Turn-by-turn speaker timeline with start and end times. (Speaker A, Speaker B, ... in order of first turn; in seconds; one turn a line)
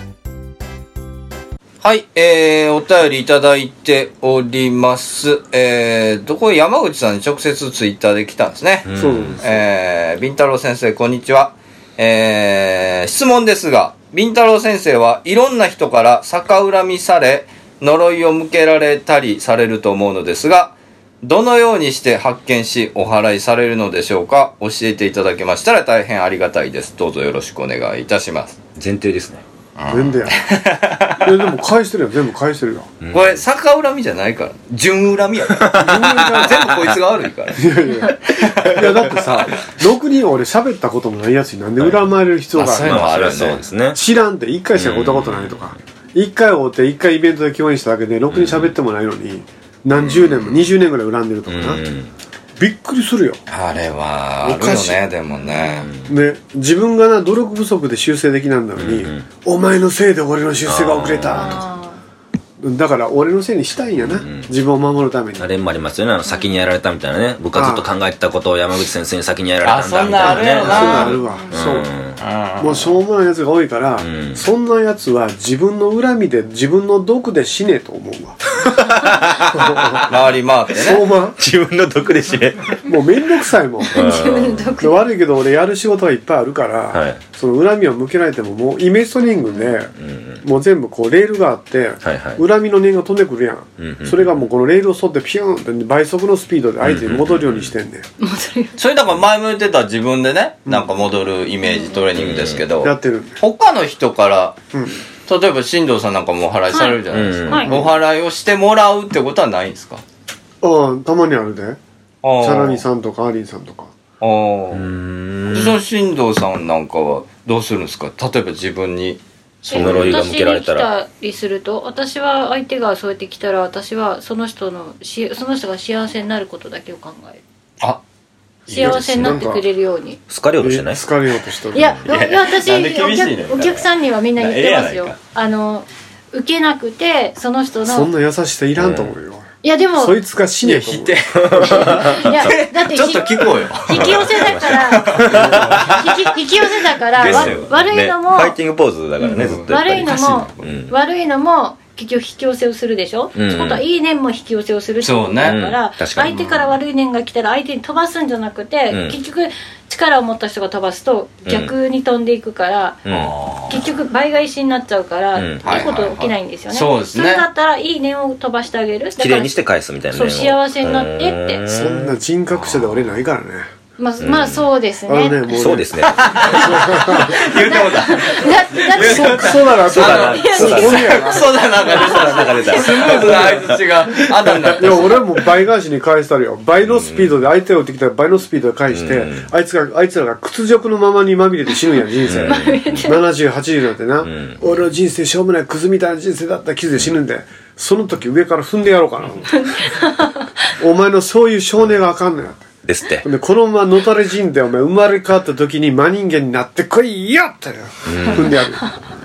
Speaker A: 1.8-8.9
Speaker B: 8.8-9.4
Speaker C: 8.9-9.6
Speaker A: 9.4-28.6
Speaker B: 28.8-29.4
Speaker A: 29.8-31.3
Speaker C: 29.9-30.4
Speaker C: 31.2-32.9
Speaker B: 33.0-33.4
Speaker A: 33.1-37.7
Speaker B: 35.6-36.4
Speaker C: 35.7-36.8
Speaker C: 37.5-43.2
Speaker A: 38.2-39.3
Speaker B: 41.8-42.0
Speaker A: 42.5-43.6
Speaker B: 42.8-44.0
Speaker C: 43.9-51.8
Speaker B: 44.7-45.7
Speaker B: 48.3-48.7
Speaker A: 50.0-50.4
Speaker B: 51.5-52.1
Speaker C: 52.6-53.4
Speaker A: 53.5-55.9
Speaker C: 54.4-55.0
Speaker B: 55.8-56.1
Speaker C: 56.0-61.6
Speaker B: 58.8-59.2
Speaker B: 60.7-61.6
Speaker D: 61.3-62.0
Speaker C: 62.6-65.5
Speaker B: 64.0-64.5
Speaker B: 65.4-72.2
Speaker D: 66.2-66.5
Speaker C: 67.5-67.9
Speaker A: 69.6-71.2
Speaker C: 70.1-71.9
Speaker D: 71.3-71.5
Speaker A: 72.2-72.9
Speaker C: 72.6-78.7
Speaker B: 74.0-74.4
Speaker B: 78.6-80.0
Speaker C: 79.5-80.1
Speaker A: 80.0-81.0
Speaker C: 80.7-81.4
Speaker B: 81.4-82.8
Speaker C: 82.8-84.0
Speaker D: 83.9-85.1
Speaker B: 83.9-84.7
Speaker C: 84.8-98.1
Speaker B: 86.9-87.2
Speaker D: 89.4-89.7
Speaker B: 90.0-90.4
Speaker B: 92.0-92.4
Speaker B: 93.8-94.3
Speaker B: 96.8-97.7
Speaker D: 98.2-98.8
Speaker A: 98.8-104.5
Speaker D: 101.6-102.0
Speaker B: 102.1-102.6
Speaker C: 102.8-103.4
Speaker C: 104.7-105.0
Speaker A: 105.2-110.0
Speaker D: 106.7-107.7
Speaker B: 107.1-107.8
Speaker C: 110.6-111.8
Speaker A: 112.2-112.8
Speaker C: 112.4-113.9
Speaker A: 114.2-114.9
Speaker B: 114.7-115.8
Speaker A: 115.5-120.2
Speaker D: 119.7-127.4
Speaker B: 119.7-120.9
Speaker C: 128.7-129.6
Speaker D: 128.7-130.2
Speaker B: 128.9-129.3
Speaker B: 130.3-131.0
Speaker C: 130.6-132.0
Speaker D: 131.7-138.1
Speaker A: 132.0-135.2
Speaker C: 137.8-142.0
Speaker B: 138.8-139.1
Speaker D: 139.6-140.2
Speaker A: 140.6-146.0
Speaker B: 141.4-142.5
Speaker D: 141.6-148.6
Speaker B: 143.9-146.2
Speaker A: 147.1-147.7
Speaker B: 147.2-150.9
Speaker D: 149.2-163.1
Speaker A: 149.3-150.7
Speaker B: 153.3-153.8
Speaker A: 155.0-155.6
Speaker B: 155.4-156.7
Speaker B: 158.9-159.2
Speaker B: 161.4-161.7
Speaker B: 163.1-163.3
Speaker A: 163.1-163.8
Speaker D: 163.7-169.6
Speaker B: 165.3-166.1
Speaker A: 165.6-167.4
Speaker B: 169.2-172.1
Speaker D: 170.1-171.6
Speaker C: 171.7-173.7
Speaker A: 172.5-173.1
Speaker D: 174.0-175.5
Speaker B: 174.2-174.6
Speaker C: 175.1-177.5
Speaker B: 175.5-176.7
Speaker A: 176.1-185.2
Speaker D: 177.4-183.2
Speaker C: 178.9-182.2
Speaker B: 179.8-183.8
Speaker C: 184.8-199.8
Speaker B: 186.8-187.3
Speaker B: 188.9-189.5
Speaker B: 192.2-193.1
Speaker D: 192.4-193.2
Speaker B: 194.2-194.6
Speaker D: 199.5-200.7
Speaker C: 200.8-202.7
Speaker B: 202.8-203.2
Speaker C: 203.2-208.9
Speaker B: 208.1-208.5
Speaker D: 208.2-208.9